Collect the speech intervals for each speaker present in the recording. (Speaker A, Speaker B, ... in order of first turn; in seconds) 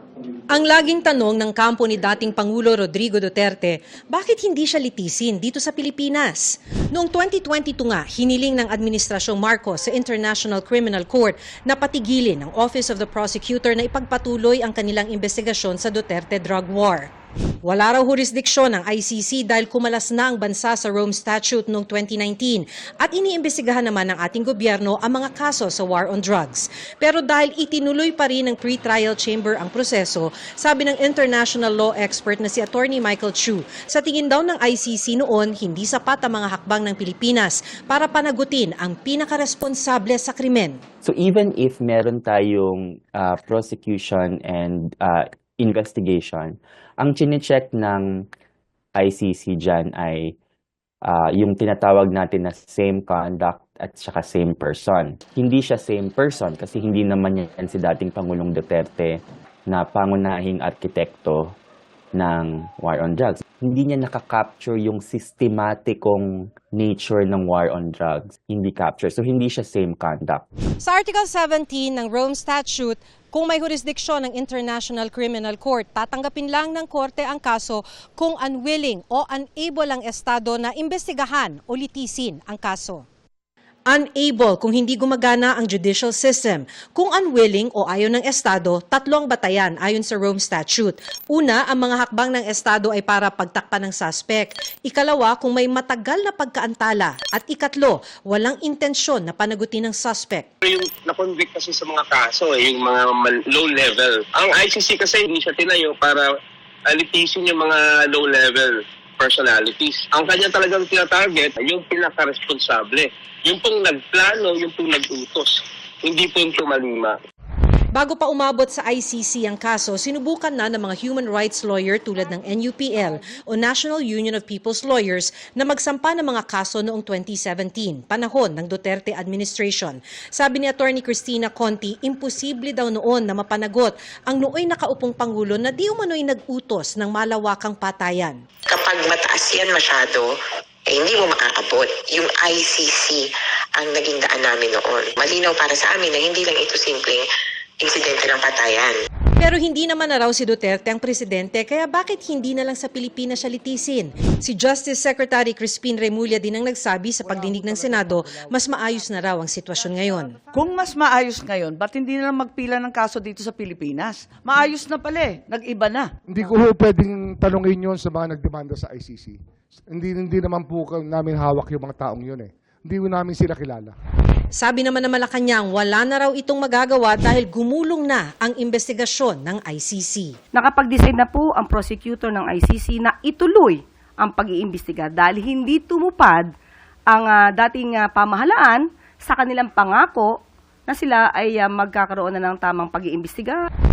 Speaker A: 0.5-17.1, 17.6-40.8, 70.8-83.0, 83.9-100.5, 117.9-138.4, 149.4-160.4, 174.6-180.3
Speaker B: 41.0-48.2, 49.0-50.3, 51.0-61.5, 62.1-70.4
Speaker C: 100.6-106.3, 106.9-117.2
Speaker D: 138.7-147.2, 147.8-148.9
Speaker E: 157.3-158.5, 166.3-173.9
Speaker F: 160.5-166.1
Speaker G: 180.5-186.5, 187.1-190.3, 190.9-193.6